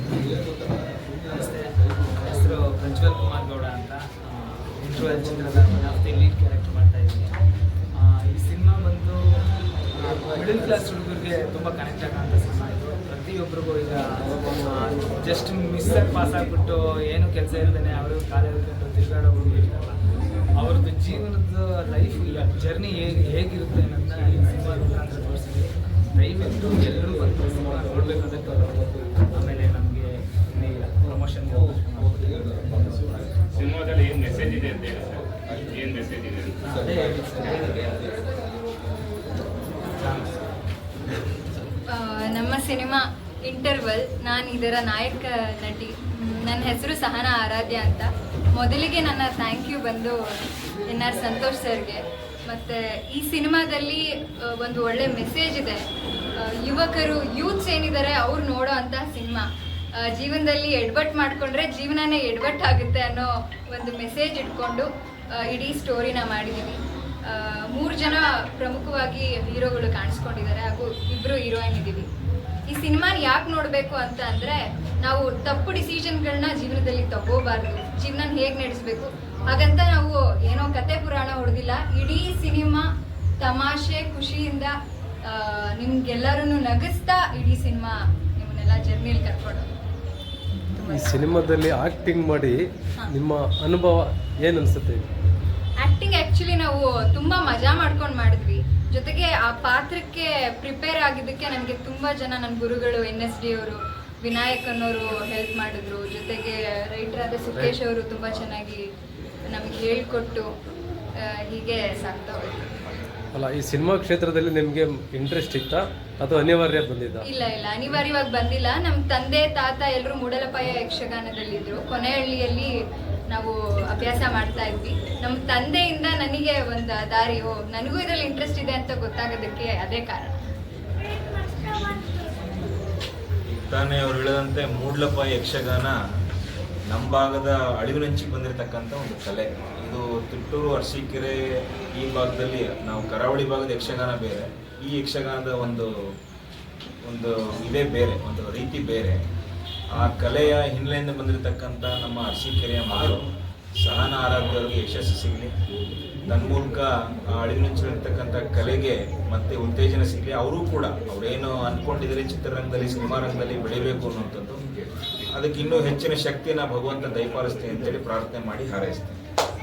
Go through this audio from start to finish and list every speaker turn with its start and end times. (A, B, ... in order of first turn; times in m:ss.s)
0:01.3-0:07.3 A
0:07.9-0:09.4 A
0:09.9-0:20.0 A
0:20.5-0:34.0 A
0:33.5-0:36.6 B
0:36.6-0:38.2 A
0:40.0-0:40.4 A
0:41.9-0:50.2 C
0:50.8-0:55.8 C
0:56.4-0:59.5 C
1:00.0-1:12.1 C
1:12.7-1:22.9 C
1:23.4-1:24.7 C
1:25.2-1:29.7 C
1:30.7-1:35.0 D
1:35.8-1:48.8 C
1:49.5-1:50.5 C
1:51.2-1:52.9 C
1:53.3-1:57.2 D
1:57.2-2:02.7 C
2:03.3-2:10.3 C
2:13.5-2:16.0 E
2:16.9-2:21.4 E
2:21.9-2:25.9 E
2:27.0-2:29.2 E
2:29.9-2:35.5 E
2:36.3-2:44.6 E
2:45.3-2:49.2 E